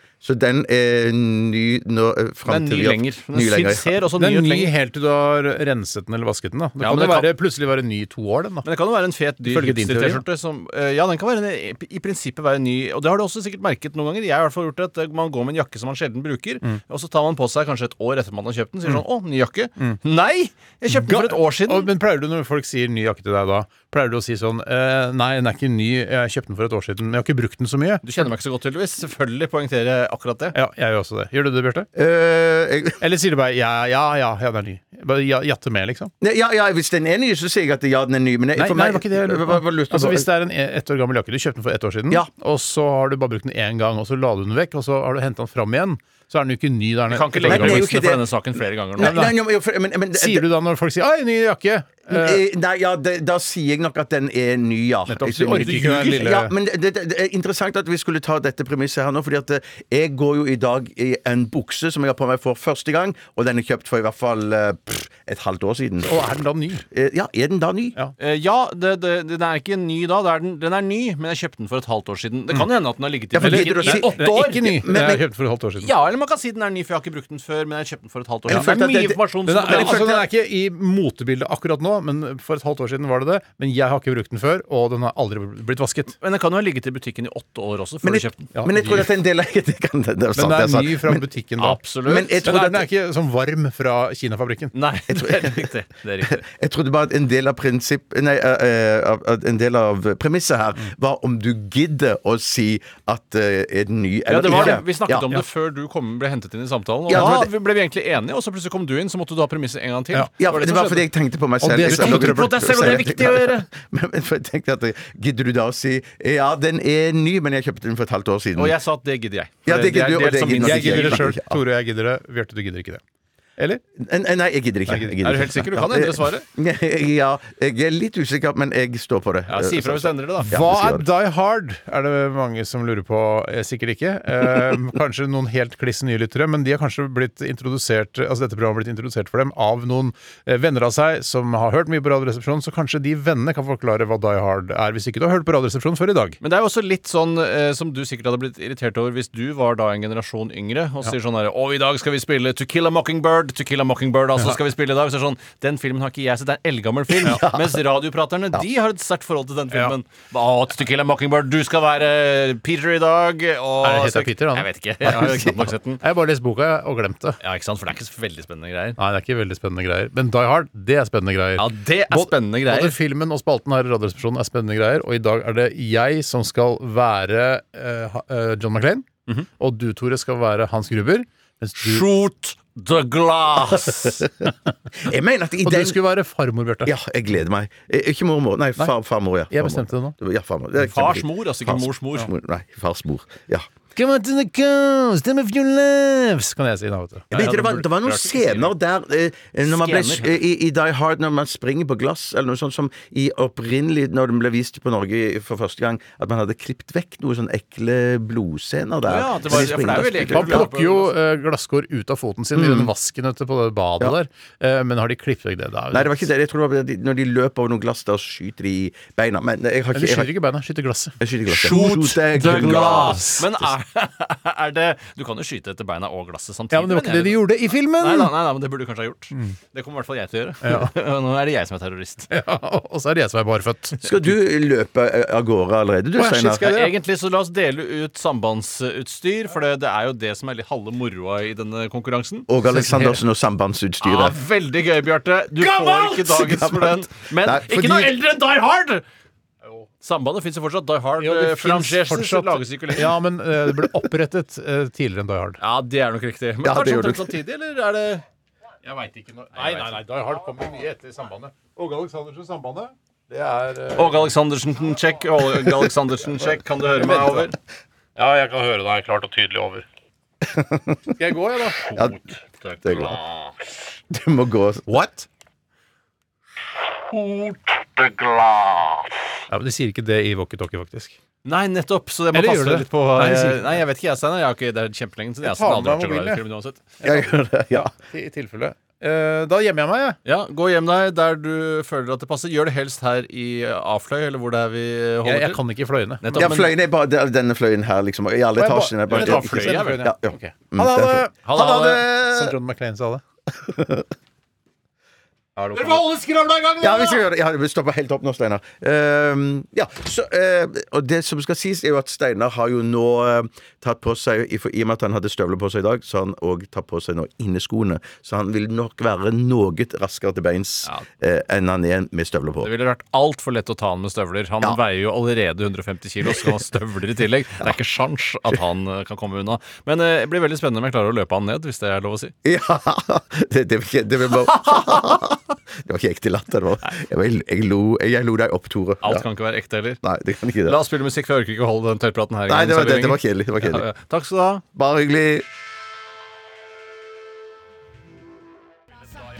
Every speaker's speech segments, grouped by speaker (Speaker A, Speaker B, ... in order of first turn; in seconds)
Speaker A: 0.2-3.9, 31.9-33.0, 36.2-40.3, 47.4-48.2, 49.0-50.5, 52.1-66.1, 66.9-68.0, 73.3-75.2, 78.5-80.2, 88.0-91.2, 92.0-92.9, 95.1-95.7, 96.2-105.3, 107.1-107.5, 110.4-118.8, 119.7-121.6, 123.9-131.1, 157.2-157.8, 185.0-186.0, 186.8-193.7, 197.3-210.7, 212.6-212.9, 215.9-220.3, 221.2-223.2, 234.0-236.8, 242.5-244.4, 245.6-248.2, 256.6-257.3, 267.0-267.5, 270.4-271.1, 272.8-273.2, 274.1-274.9, 287.0-287.9, 296.3-302.6, 303.5-304.1, 306.8-322.7, 332.4-339.3, 340.0-340.8, 342.5-343.9, 344.8-345.4
Speaker B: 2.5-4.7, 6.8-7.3, 8.6-21.9, 28.0-30.6, 47.1-49.2, 55.6-56.1, 68.2-74.7, 75.8-80.2, 86.2-88.5, 91.6-92.4, 94.7-96.4, 104.3-111.1, 111.8-113.7, 118.5-121.3, 125.2-126.4, 129.5-130.5, 146.4-166.0, 167.4-169.0, 171.6-172.9, 181.8-184.3, 190.8-192.3, 197.3-198.7, 199.6-200.4, 209.1-211.1, 221.7-232.3, 236.6-242.5, 244.0-249.0, 250.0-253.1, 255.6-258.2, 259.6-259.9, 263.9-267.5, 272.6-273.2, 277.1-278.7, 281.4-286.9, 290.2-295.6, 296.2-296.7, 299.1-300.1, 305.7-306.0, 322.6-332.3, 339.0-340.0, 340.6-344.6
Speaker C: 4.2-8.7, 9.4-10.2, 20.9-28.2, 30.5-31.9, 33.0-36.1, 38.6-47.9, 49.0-49.4, 50.1-52.4, 55.1-56.5, 66.0-66.8, 73.4-75.9, 79.4-86.1, 88.5-89.1, 90.3-91.8, 92.4-94.7, 104.5-104.8, 107.1-107.4, 111.6-113.0, 120.6-123.0, 124.9-125.2, 130.5-146.4, 163.8-167.4, 169.0-179.1, 179.6-182.1, 185.6-186.9, 189.5-190.2, 193.9-197.4, 209.5-216.3, 219.9-223.4, 226.7-228.3, 230.6-230.9, 232.3-234.3, 236.2-236.9, 242.7-243.2, 251.2-255.6, 258.9-264.3, 268.1-269.9, 271.2-271.9, 274.9-275.3, 279.5-281.2, 282.3-283.7, 285.4-286.4, 287.0-290.2, 295.2-296.6, 298.6-303.2, 305.7-307.2